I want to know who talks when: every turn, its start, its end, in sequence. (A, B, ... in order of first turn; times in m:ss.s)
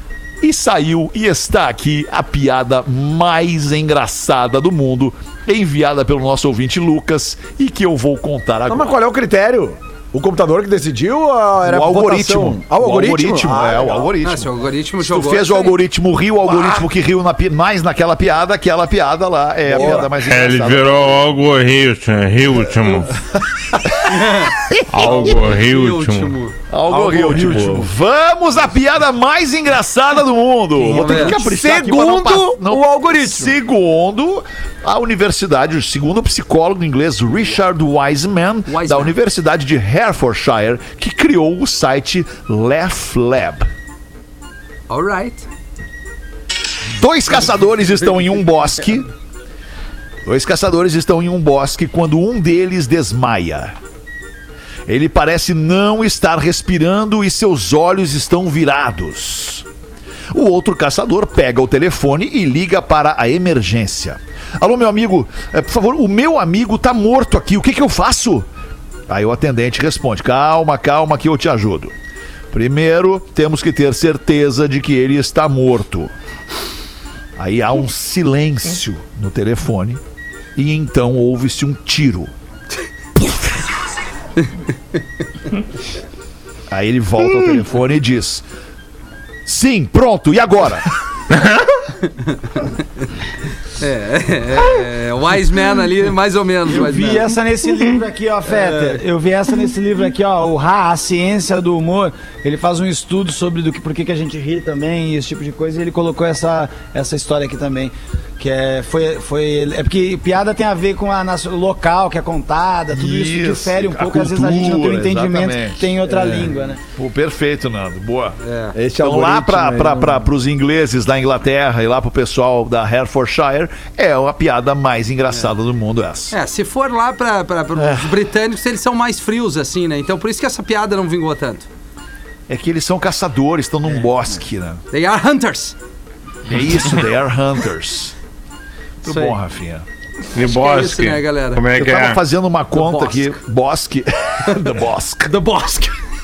0:00.4-0:08.9 A
0:08.7-0:14.1 B
0:11.6-0:21.2 A
0:14.2-0:15.8 C
0:19.7-0:20.1 B
0:20.2-0:23.1 D
0:24.0-0:26.5 C
0:24.9-0:26.3 D
0:26.7-0:43.7 A
0:26.9-0:27.8 E
0:30.8-0:31.4 C
0:30.9-0:33.6 B
0:38.7-0:39.1 C
0:44.9-0:45.4 C
0:46.9-0:49.1 A
0:50.2-0:53.7 A
0:54.9-0:59.6 A
1:00.3-1:08.5 A
1:09.1-1:11.9 A
1:12.5-1:16.1 A
1:17.4-1:20.0 A
1:20.6-1:22.3 A
1:26.7-1:28.4 A
1:29.4-1:30.9 A
1:33.8-1:37.3 C
1:36.7-1:56.8 E
1:52.9-1:55.9 A
1:56.0-1:56.6 B
1:56.9-1:58.4 A
1:58.4-1:58.8 C
1:58.7-2:00.3 B
1:59.0-2:06.3 A
2:06.3-2:11.7 C
2:07.8-2:08.1 A
2:12.5-2:14.8 A
2:14.9-2:15.8 C
2:16.4-2:18.1 A
2:19.0-2:19.8 A
2:19.0-2:19.4 C
2:20.3-2:22.2 D
2:20.4-2:21.6 C
2:21.7-2:25.4 A
2:22.7-2:23.4 C
2:25.3-2:25.9 C